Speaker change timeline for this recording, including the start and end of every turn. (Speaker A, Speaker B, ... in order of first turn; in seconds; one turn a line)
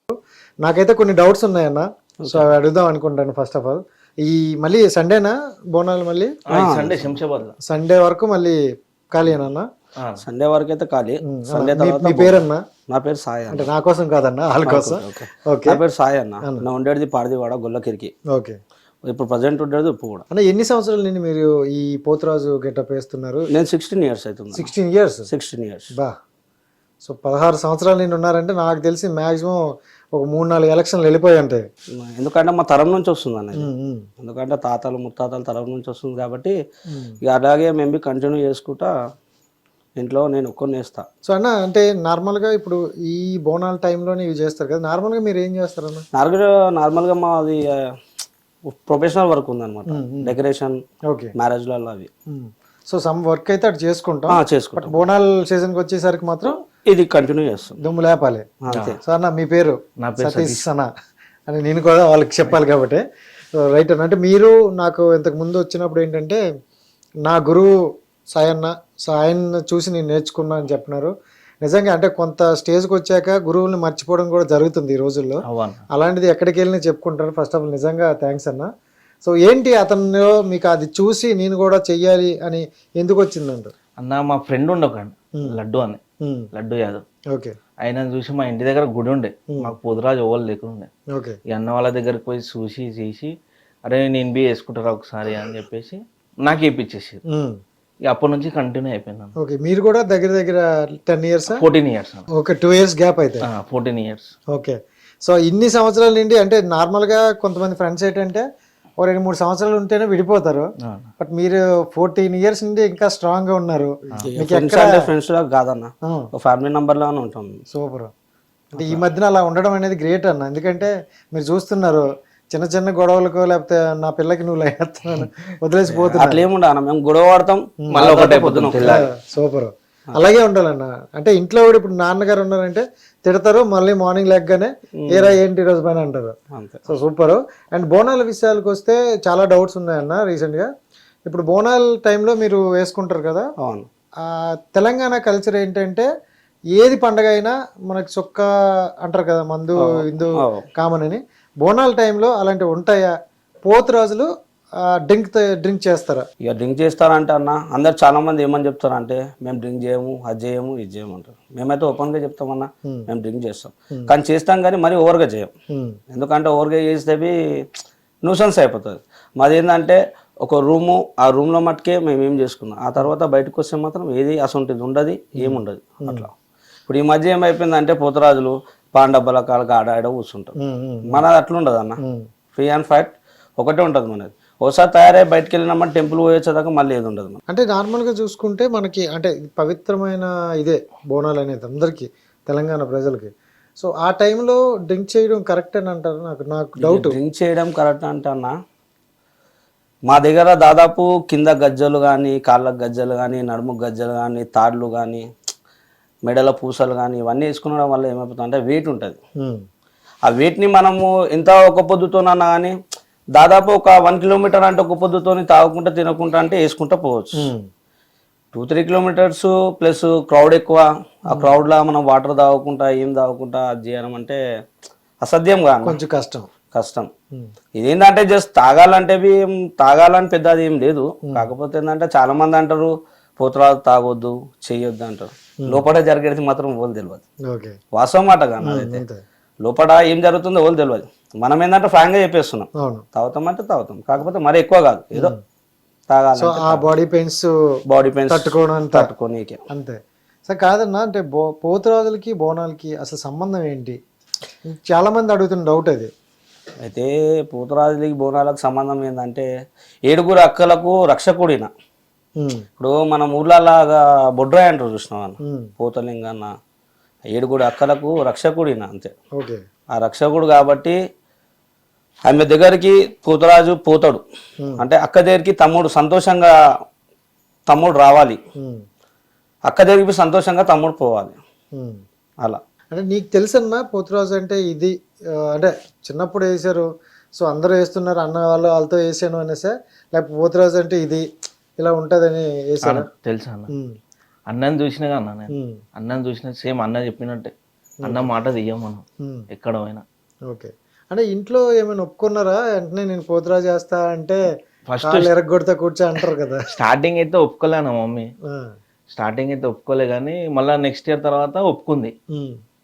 Speaker A: 0.1-6.4
Speaker B: 2.2-2.5
Speaker C: 6.5-7.5
Speaker B: 6.5-7.2
Speaker A: 7.7-8.6
Speaker A: 9.1-9.7
Speaker C: 10.0-10.2
Speaker B: 10.2-13.7
Speaker A: 11.2-12.6
Speaker A: 13.5-15.8
Speaker B: 14.6-18.1
Speaker B: 19.1-20.2
Speaker A: 20.3-23.5
Speaker B: 23.5-24.7
Speaker A: 24.5-25.3
Speaker B: 25.3-25.9
Speaker A: 27.0-31.6
Speaker B: 32.0-36.5
Speaker A: 33.5-34.0
Speaker A: 36.9-37.2
Speaker B: 37.2-38.9
Speaker B: 40.0-41.0
Speaker A: 41.3-46.0
Speaker B: 46.1-47.8
Speaker B: 48.7-50.8
Speaker A: 49.9-50.4
Speaker B: 51.4-52.1
Speaker A: 52.3-56.6
Speaker B: 54.3-55.0
Speaker B: 56.8-57.8
Speaker A: 57.8-58.5
Speaker B: 58.6-59.0
Speaker C: 58.7-59.0
Speaker A: 59.0-60.9
Speaker C: 60.0-60.6
Speaker A: 61.5-63.0
Speaker A: 63.6-66.4
Speaker A: 67.2-67.7
Speaker A: 68.3-75.4
Speaker C: 75.5-75.8
Speaker A: 75.9-78.7
Speaker A: 79.2-83.7
Speaker C: 84.0-86.0
Speaker A: 86.2-86.5
Speaker C: 86.5-87.0
Speaker C: 87.8-90.9
Speaker A: 91.1-91.4
Speaker C: 91.5-93.3
Speaker C: 93.9-97.2
Speaker A: 97.3-97.5
Speaker C: 98.1-99.3
Speaker A: 99.4-101.6
Speaker C: 101.5-102.2
Speaker A: 102.3-103.4
Speaker C: 103.5-104.3
Speaker A: 104.5-108.4
Speaker A: 109.0-110.6
Speaker C: 110.8-111.1
Speaker A: 111.2-115.1
Speaker B: 114.2-117.6
Speaker A: 117.7-118.1
Speaker A: 118.7-126.5
Speaker B: 125.9-128.9
Speaker A: 127.8-128.1
Speaker C: 127.9-129.0
Speaker A: 128.8-136.3
Speaker B: 135.0-135.3
Speaker B: 136.5-136.8
Speaker A: 136.9-140.7
Speaker A: 141.2-143.4
Speaker B: 143.6-143.9
Speaker A: 144.2-146.1
Speaker A: 146.8-148.4
Speaker A: 149.0-153.1
Speaker B: 149.8-150.7
Speaker A: 153.7-154.3
Speaker A: 154.9-156.2
Speaker B: 156.4-165.5
Speaker A: 165.7-166.0
Speaker B: 166.1-167.7
Speaker B: 168.2-176.3
Speaker A: 175.4-176.3
Speaker B: 176.9-180.6
Speaker A: 180.6-181.2
Speaker B: 181.1-181.9
Speaker A: 182.0-182.2
Speaker B: 182.5-187.4
Speaker A: 187.5-197.2
Speaker B: 196.8-198.5
Speaker B: 200.1-205.2
Speaker B: 206.2-209.2
Speaker B: 210.2-212.8
Speaker B: 213.3-217.5
Speaker A: 217.4-217.6
Speaker B: 218.5-224.4
Speaker B: 225.2-226.0
Speaker A: 225.8-226.5
Speaker B: 226.7-227.1
Speaker B: 227.8-237.2
Speaker A: 237.5-237.8
Speaker B: 237.9-239.0
Speaker A: 238.6-239.2
Speaker B: 239.6-245.3
Speaker A: 242.8-243.0
Speaker A: 245.1-245.4
Speaker B: 246.1-246.8
Speaker A: 246.3-247.5
Speaker B: 247.9-249.6
Speaker A: 248.3-249.1
Speaker A: 249.7-254.0
Speaker A: 254.7-256.1
Speaker B: 256.8-259.5
Speaker B: 260.1-261.7
Speaker A: 262.4-262.6
Speaker B: 262.8-266.5
Speaker A: 265.4-265.7
Speaker B: 267.3-269.1
Speaker A: 269.4-269.6
Speaker B: 269.9-271.0
Speaker B: 272.2-274.2
Speaker B: 274.8-276.5
Speaker B: 277.7-278.4
Speaker A: 278.6-278.8
Speaker B: 279.6-281.3
Speaker A: 281.8-282.0
Speaker A: 282.9-291.2
Speaker A: 291.8-293.1
Speaker C: 292.8-293.7
Speaker C: 294.5-297.5
Speaker A: 295.5-295.8
Speaker A: 298.1-298.3
Speaker C: 298.1-300.0
Speaker A: 300.5-304.4
Speaker C: 304.9-305.3
Speaker A: 305.0-306.7
Speaker C: 306.7-308.3
Speaker C: 309.1-312.1
Speaker A: 312.3-312.6